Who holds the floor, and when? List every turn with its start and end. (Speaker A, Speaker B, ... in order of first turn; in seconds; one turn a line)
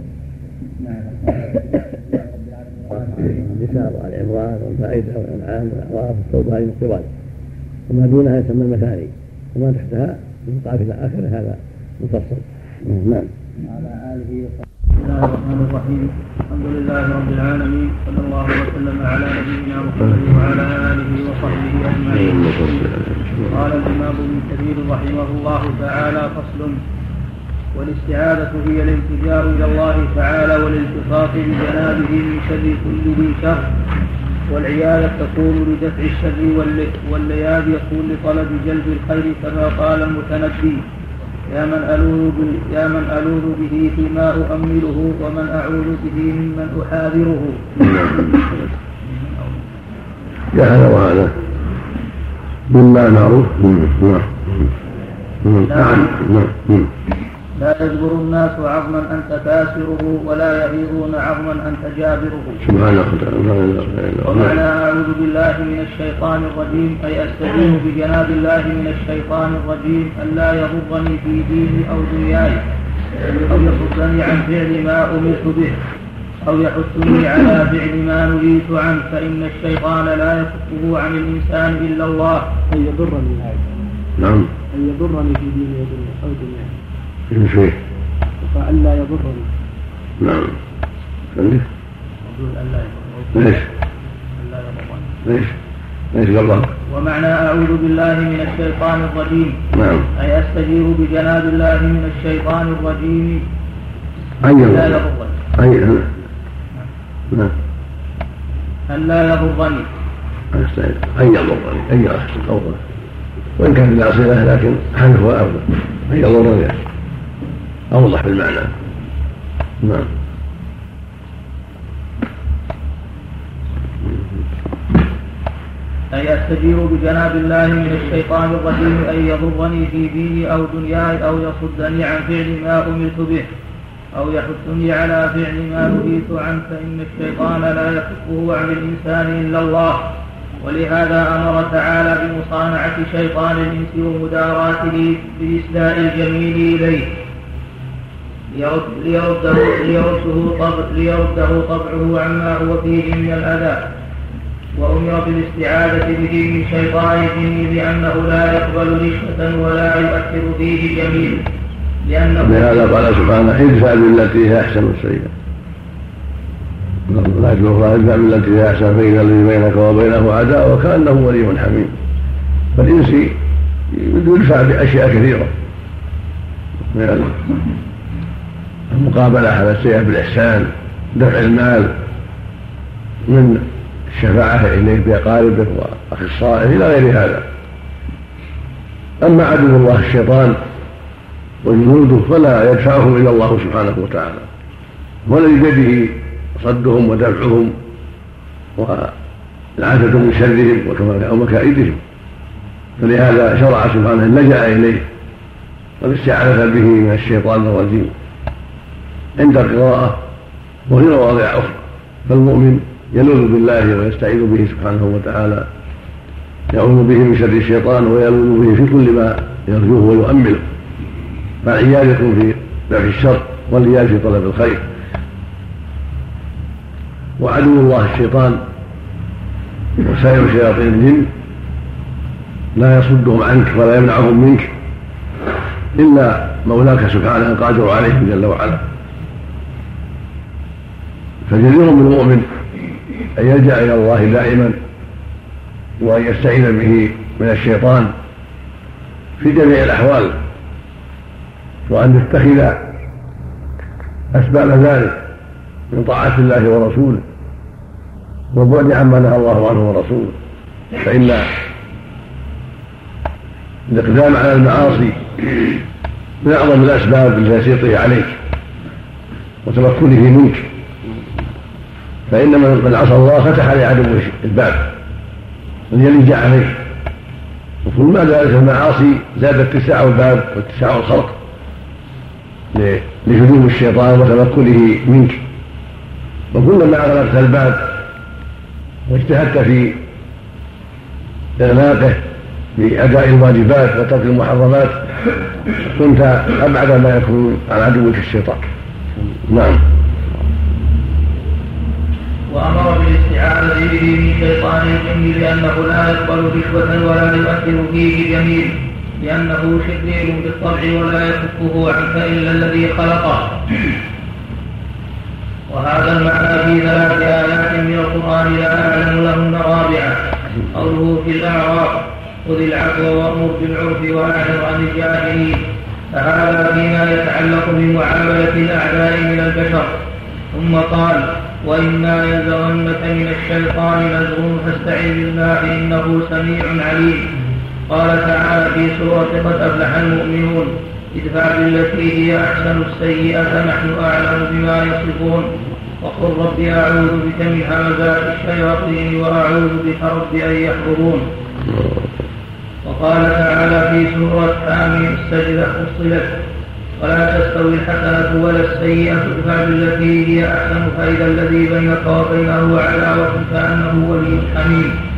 Speaker A: 0.8-3.6
Speaker B: 2.9-7.1
Speaker B: 7.9-13.3
Speaker A: 13.6-14.6
Speaker C: 14.9-22.5
Speaker B: 20.0-20.3
Speaker B: 22.1-23.6
Speaker C: 23.5-26.8
Speaker C: 27.7-33.6
Speaker C: 34.5-40.8
Speaker C: 41.5-47.6
Speaker B: 47.8-48.7
Speaker B: 50.5-51.4
Speaker B: 52.7-54.7
Speaker B: 55.4-56.9
Speaker C: 55.6-56.2
Speaker C: 57.5-62.6
Speaker B: 62.6-64.6
Speaker C: 64.2-72.6
Speaker D: 73.3-73.5
Speaker C: 73.4-75.8
Speaker C: 76.4-82.5
Speaker D: 82.7-83.7
Speaker B: 84.2-84.5
Speaker D: 84.7-86.8
Speaker B: 87.3-87.8
Speaker D: 88.4-89.5
Speaker B: 90.2-90.6
Speaker B: 91.3-91.7
Speaker C: 92.3-93.5
Speaker B: 93.3-93.7
Speaker C: 94.4-95.1
Speaker B: 95.2-95.6
Speaker B: 96.1-96.7
Speaker C: 96.9-99.6
Speaker B: 99.7-100.1
Speaker C: 100.1-103.4
Speaker B: 104.4-105.0
Speaker C: 104.5-105.5
Speaker B: 105.5-106.2
Speaker C: 108.9-109.9
Speaker B: 110.5-112.8
Speaker B: 113.6-116.8
Speaker B: 117.9-118.7
Speaker B: 119.8-120.1
Speaker B: 124.0-124.4
Speaker C: 126.1-133.5
Speaker C: 134.1-140.1
Speaker C: 140.6-147.1
Speaker C: 148.5-153.8
Speaker C: 154.8-161.4
Speaker C: 162.1-163.0
Speaker B: 162.4-165.3
Speaker B: 167.1-172.0
Speaker B: 172.7-173.4
Speaker B: 173.9-175.5
Speaker B: 176.9-177.5
Speaker B: 178.9-181.9
Speaker B: 183.3-187.4
Speaker B: 189.2-190.6
Speaker B: 191.6-194.5
Speaker B: 195.2-197.7
Speaker B: 198.8-199.1
Speaker B: 199.8-202.0
Speaker B: 203.0-205.1
Speaker B: 206.0-208.1
Speaker B: 209.4-210.2
Speaker B: 210.9-215.7
Speaker B: 216.7-220.7
Speaker B: 221.6-224.9
Speaker B: 227.4-228.6
Speaker B: 230.0-231.3
Speaker B: 232.7-234.7
Speaker B: 235.9-238.8
Speaker B: 241.4-242.5
Speaker B: 243.3-244.8
Speaker B: 246.0-248.1
Speaker B: 249.4-250.3
Speaker B: 251.9-252.8
Speaker B: 254.3-255.2
Speaker B: 255.9-257.2
Speaker B: 258.5-260.4
Speaker B: 260.9-261.5
Speaker B: 263.9-265.8
Speaker B: 266.4-268.4
Speaker B: 269.6-270.7
Speaker B: 272.3-274.9
Speaker B: 275.9-276.8
Speaker B: 277.8-281.4
Speaker B: 282.7-285.4
Speaker B: 286.5-287.9
Speaker B: 289.1-290.0
Speaker B: 291.6-292.2
Speaker B: 292.8-295.0
Speaker B: 295.8-298.6
Speaker B: 299.4-299.8
Speaker C: 302.5-313.9
Speaker C: 315.7-320.1
Speaker C: 320.7-325.6
Speaker C: 326.1-329.9
Speaker C: 330.5-337.2
Speaker C: 337.9-345.5
Speaker C: 346.0-351.2
Speaker B: 351.6-352.2
Speaker C: 352.8-356.4
Speaker C: 357.0-364.9